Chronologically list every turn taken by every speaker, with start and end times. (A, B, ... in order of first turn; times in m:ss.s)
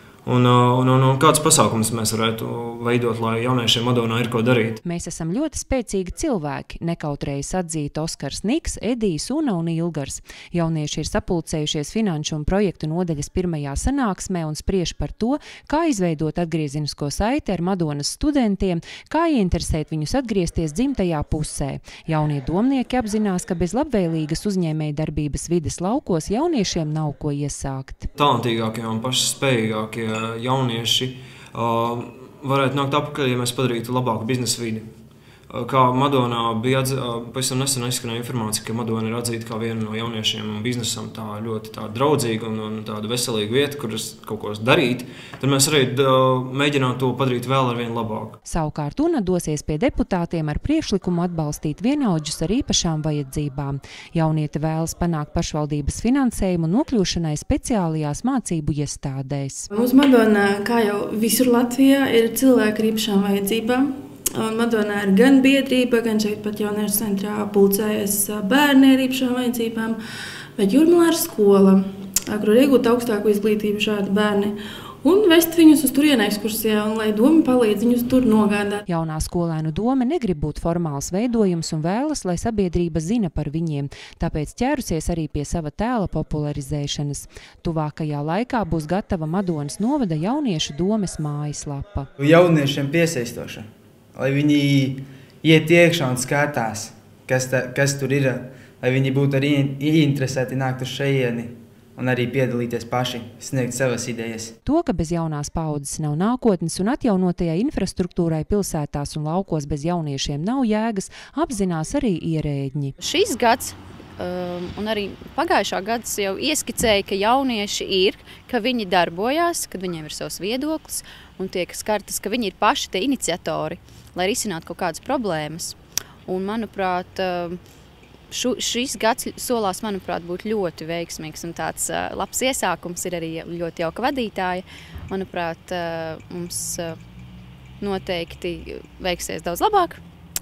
0:00.2-0:04.8 A
0:04.8-0:28.1 B
0:28.1-0:34.9 A
0:35.5-0:48.4 A
0:48.4-0:59.7 B
0:59.7-1:10.0 C
1:10.6-1:18.8 C
1:18.9-1:32.1 B
1:32.2-1:44.5 D
1:44.6-1:52.9 B
1:53.0-2:05.8 E
2:06.3-2:07.6 E
2:08.3-2:17.0 E
2:17.8-2:20.0 E